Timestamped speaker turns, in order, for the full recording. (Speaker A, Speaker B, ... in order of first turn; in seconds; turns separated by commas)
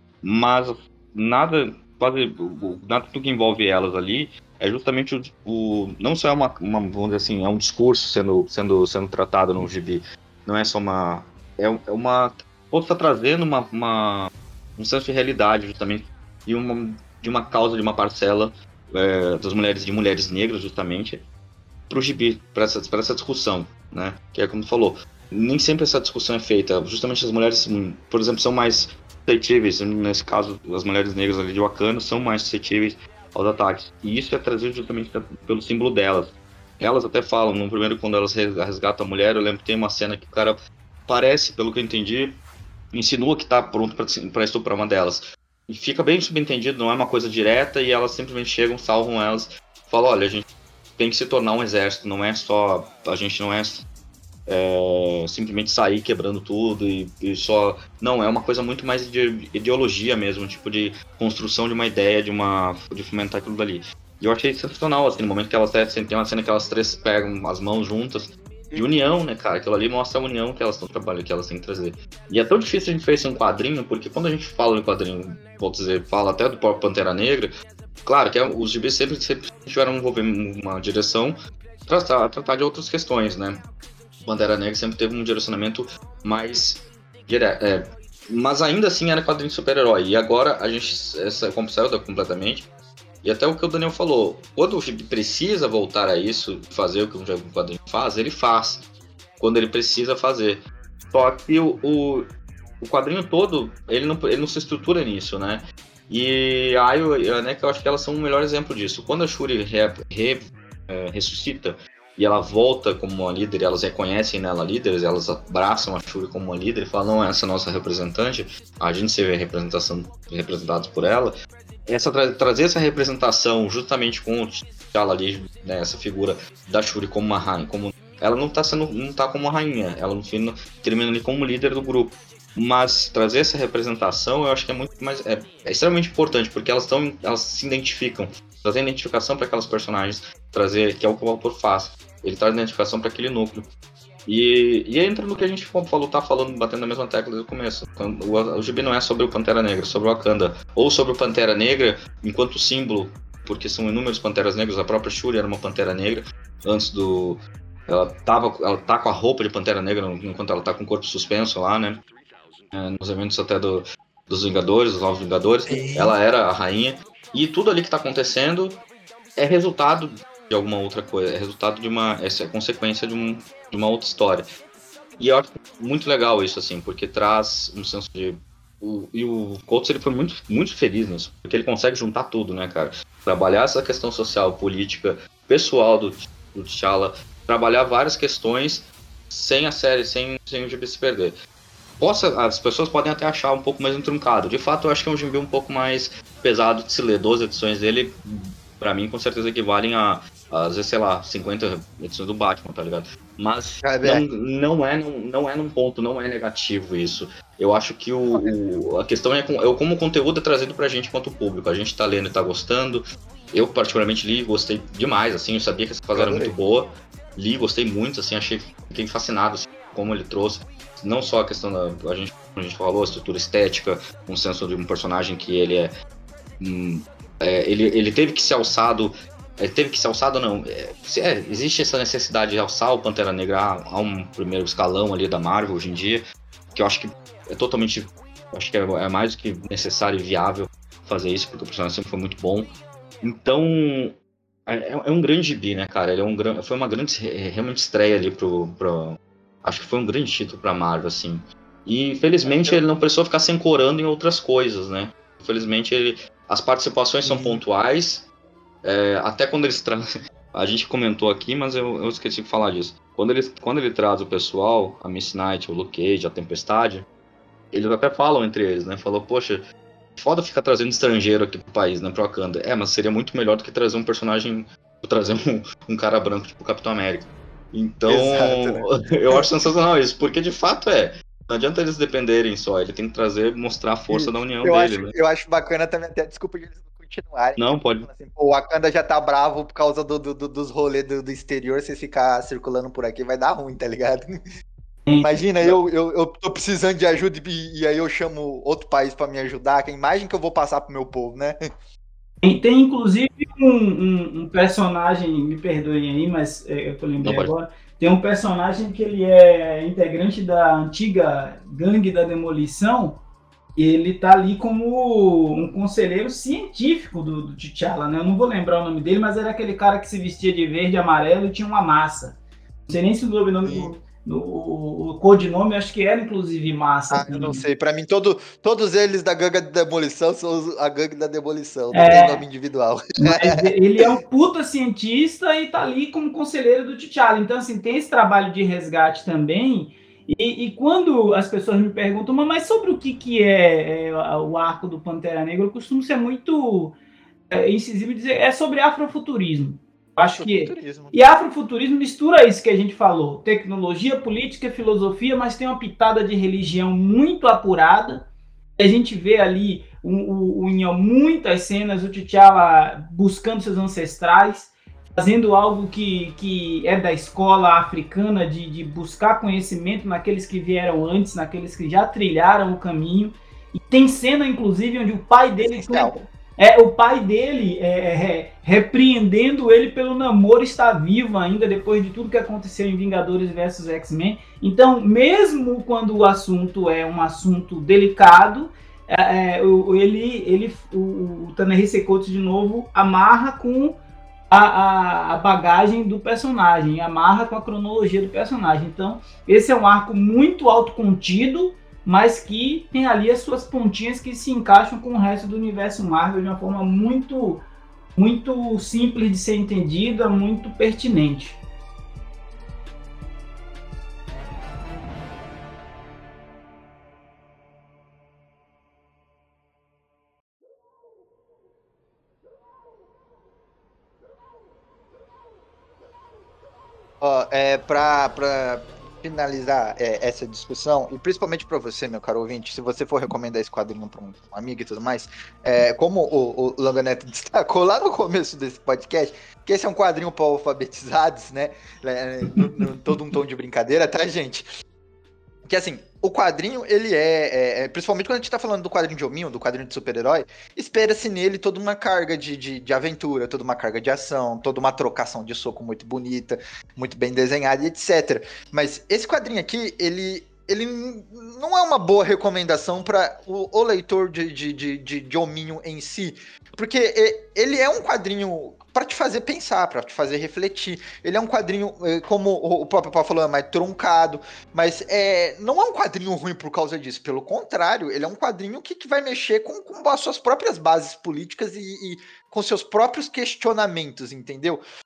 Speaker A: 0.2-21.2, Speaker A: 21.9-42.4, Speaker A: 42.9-50.4, Speaker A: 51.0-53.9, Speaker A: 54.5-77.5, Speaker A: 78.0-83.6, Speaker A: 84.2-92.7, Speaker A: 93.2-98.8, Speaker A: 99.4-102.3, Speaker A: 102.8-121.3, Speaker A: 121.9-143.7, Speaker A: 144.3-162.0, Speaker A: 162.7-168.8, Speaker B: 165.7-166.2, Speaker A: 169.4-174.5, Speaker A: 175.2-191.3, Speaker A: 192.0-225.9, Speaker B: 203.8-204.2, Speaker B: 216.1-216.5, Speaker A: 226.6-244.2, Speaker A: 244.7-258.2, Speaker B: 252.4-252.8, Speaker B: 257.2-257.6, Speaker A: 258.8-267.1, Speaker A: 267.7-269.6, Speaker A: 270.2-285.1, Speaker B: 278.1-279.5, Speaker B: 284.1-294.3, Speaker A: 287.6-288.1, Speaker C: 295.1-295.3, Speaker B: 295.2-301.5, Speaker C: 302.4-313.2, Speaker A: 307.2-307.5, Speaker C: 313.8-327.6, Speaker B: 323.6-323.9, Speaker B: 327.1-334.1, Speaker C: 331.9-332.4, Speaker C: 333.2-346.9, Speaker C: 347.5-394.0, Speaker B: 350.2-351.2, Speaker B: 375.6-376.1, Speaker C: 394.5-407.6, Speaker C: 408.1-411.6, Speaker B: 427.2-444.7, Speaker B: 445.6-484.8